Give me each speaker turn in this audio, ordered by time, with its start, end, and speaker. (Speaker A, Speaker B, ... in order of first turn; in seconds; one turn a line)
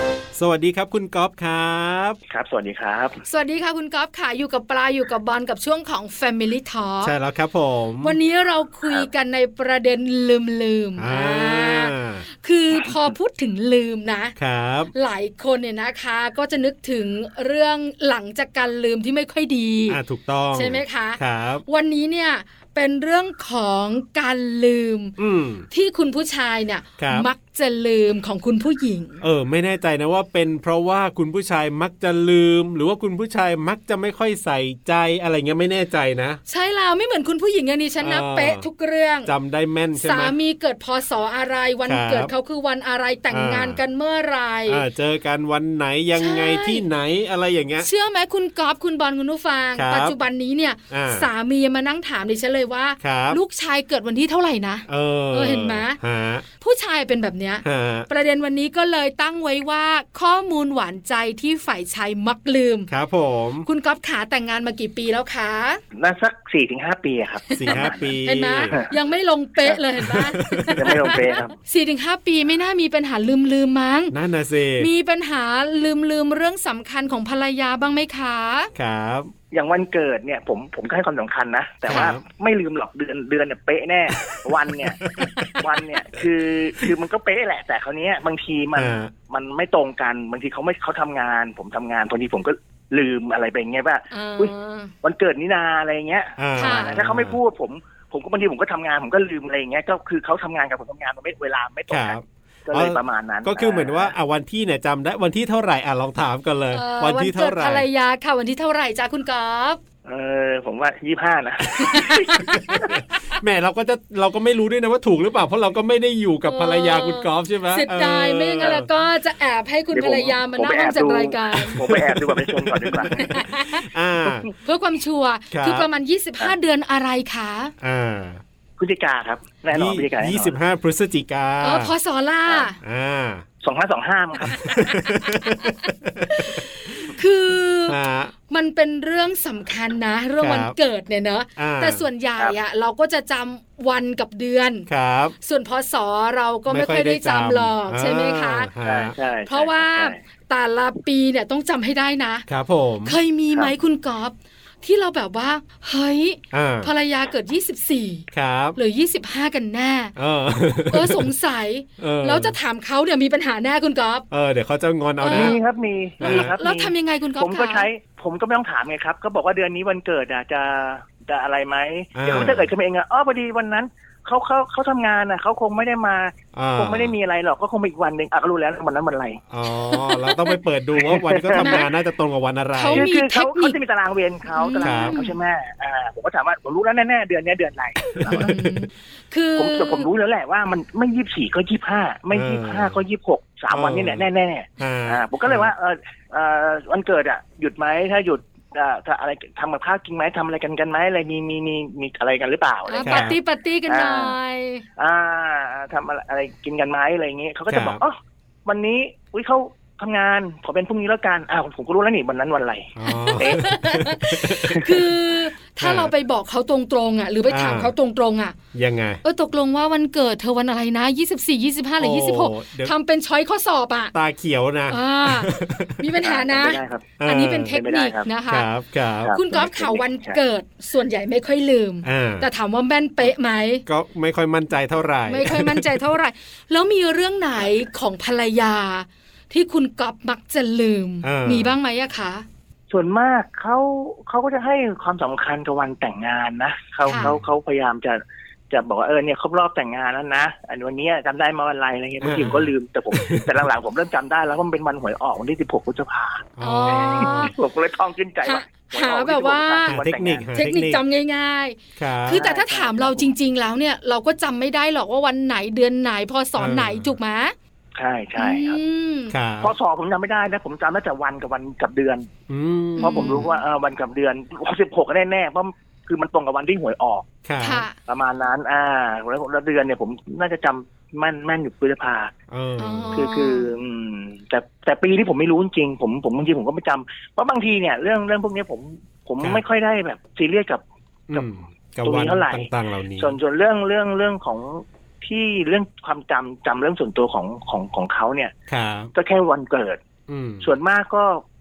Speaker A: 0.3-2.2
Speaker B: 2.3-3.2
Speaker C: 3.2-7.1
Speaker A: 7.0-8.2
Speaker C: 8.0-14.3
Speaker A: 11.0-12.2
Speaker A: 14.4-14.9
Speaker C: 14.9-20.0
Speaker A: 19.9-21.6
Speaker C: 20.5-25.1
Speaker A: 25.2-25.6
Speaker C: 25.7-29.2
Speaker A: 27.0-27.3
Speaker A: 29.2-36.4
Speaker C: 36.5-39.3
Speaker A: 38.0-38.7
Speaker A: 39.2-40.4
Speaker C: 39.9-44.8
Speaker A: 41.9-42.3
Speaker A: 43.3-43.8
Speaker A: 44.7-47.9
Speaker C: 46.1-46.8
Speaker C: 47.8-56.0
Speaker A: 49.7-50.1
Speaker A: 50.9-51.3
Speaker A: 53.0-53.4
Speaker A: 54.9-56.4
Speaker C: 56.6-62.9
Speaker A: 57.6-58.1
Speaker A: 62.9-63.7
Speaker C: 63.6-65.8
Speaker B: 65.9-68.1
Speaker C: 67.5-74.2
Speaker A: 67.6-68.8
Speaker B: 68.7-68.9
Speaker A: 70.0-71.2
Speaker B: 70.7-71.5
Speaker A: 74.1-74.9
Speaker C: 74.8-78.7
Speaker A: 78.7-79.3
Speaker B: 79.5-104.1
Speaker A: 81.9-82.2
Speaker A: 85.0-85.5
Speaker C: 85.1-85.6
Speaker A: 88.7-89.1
Speaker C: 94.1-94.9
Speaker A: 96.4-97.4
Speaker C: 96.5-96.9
Speaker A: 101.9-107.8
Speaker C: 106.7-109.8
Speaker B: 110.0-112.9
Speaker C: 111.8-113.4
Speaker A: 112.5-118.9
Speaker C: 116.5-121.9
Speaker B: 119.9-123.4
Speaker A: 121.6-124.5
Speaker C: 123.1-123.8
Speaker C: 124.6-127.7
Speaker A: 125.5-125.9
Speaker A: 127.8-128.4
Speaker B: 128.8-130.6
Speaker A: 129.7-131.9
Speaker C: 131.6-132.8
Speaker A: 132.8-133.4
Speaker B: 133.6-134.8
Speaker A: 134.4-137.2
Speaker C: 134.5-138.0
Speaker A: 137.9-138.3
Speaker C: 138.5-144.9
Speaker A: 140.4-140.7
Speaker A: 141.6-142.0
Speaker A: 144.9-145.3
Speaker C: 145.4-148.7
Speaker A: 146.7-149.1
Speaker B: 148.8-150.2
Speaker C: 149.5-152.4
Speaker A: 152.5-153.2
Speaker C: 153.0-160.1
Speaker A: 156.5-156.9
Speaker A: 158.3-158.8
Speaker A: 160.2-161.3
Speaker C: 160.8-164.2
Speaker A: 162.0-162.6
Speaker A: 164.3-165.6
Speaker C: 165.2-165.6
Speaker B: 165.3-179.4
Speaker A: 166.2-166.5
Speaker C: 166.2-167.9
Speaker A: 172.1-172.7
Speaker A: 176.5-177.1
Speaker A: 179.5-183.1
Speaker C: 179.8-180.6
Speaker B: 181.2-181.8
Speaker C: 181.5-181.9
Speaker C: 182.7-183.8
Speaker B: 182.9-188.5
Speaker C: 184.5-185.3
Speaker A: 184.8-185.2
Speaker C: 188.2-190.1
Speaker A: 188.2-188.8
Speaker B: 189.6-203.3
Speaker A: 192.3-193.0
Speaker A: 193.7-194.2
Speaker A: 194.8-195.7
Speaker C: 202.9-204.8
Speaker A: 203.0-203.3
Speaker B: 203.9-204.4
Speaker B: 205.0-213.7
Speaker A: 207.7-208.0
Speaker A: 213.0-214.9
Speaker C: 213.0-218.6
Speaker A: 215.8-216.1
Speaker A: 217.5-217.9
Speaker A: 218.7-219.2
Speaker C: 219.2-224.1
Speaker A: 222.0-222.9
Speaker A: 224.1-226.0
Speaker C: 224.9-228.7
Speaker B: 226.2-227.2
Speaker A: 227.2-227.8
Speaker B: 227.7-228.3
Speaker A: 228.5-229.3
Speaker B: 229.2-230.4
Speaker C: 229.3-233.8
Speaker A: 232.0-232.5
Speaker A: 233.8-236.1
Speaker C: 235.3-242.4
Speaker A: 241.2-241.7
Speaker B: 242.9-260.5
Speaker C: 247.1-247.3
Speaker A: 247.1-247.4
Speaker A: 252.2-253.7
Speaker A: 256.6-257.5
Speaker C: 256.6-257.5
Speaker C: 258.4-260.0
Speaker A: 259.9-261.0
Speaker C: 260.5-267.5
Speaker A: 262.0-262.4
Speaker B: 262.3-263.3
Speaker A: 266.6-267.1
Speaker B: 267.9-268.8
Speaker C: 268.4-269.3
Speaker A: 269.3-269.7
Speaker B: 269.6-272.3
Speaker A: 272.5-273.5
Speaker C: 273.0-273.5
Speaker B: 273.0-277.3
Speaker A: 277.4-277.9
Speaker C: 277.6-277.9
Speaker B: 278.0-282.3
Speaker A: 282.5-283.3
Speaker C: 282.8-283.7
Speaker B: 283.1-291.5
Speaker A: 291.3-293.4
Speaker B: 292.0-298.5
Speaker A: 298.7-299.1
Speaker B: 299.1-300.0
Speaker A: 300.3-300.7
Speaker B: 300.6-301.4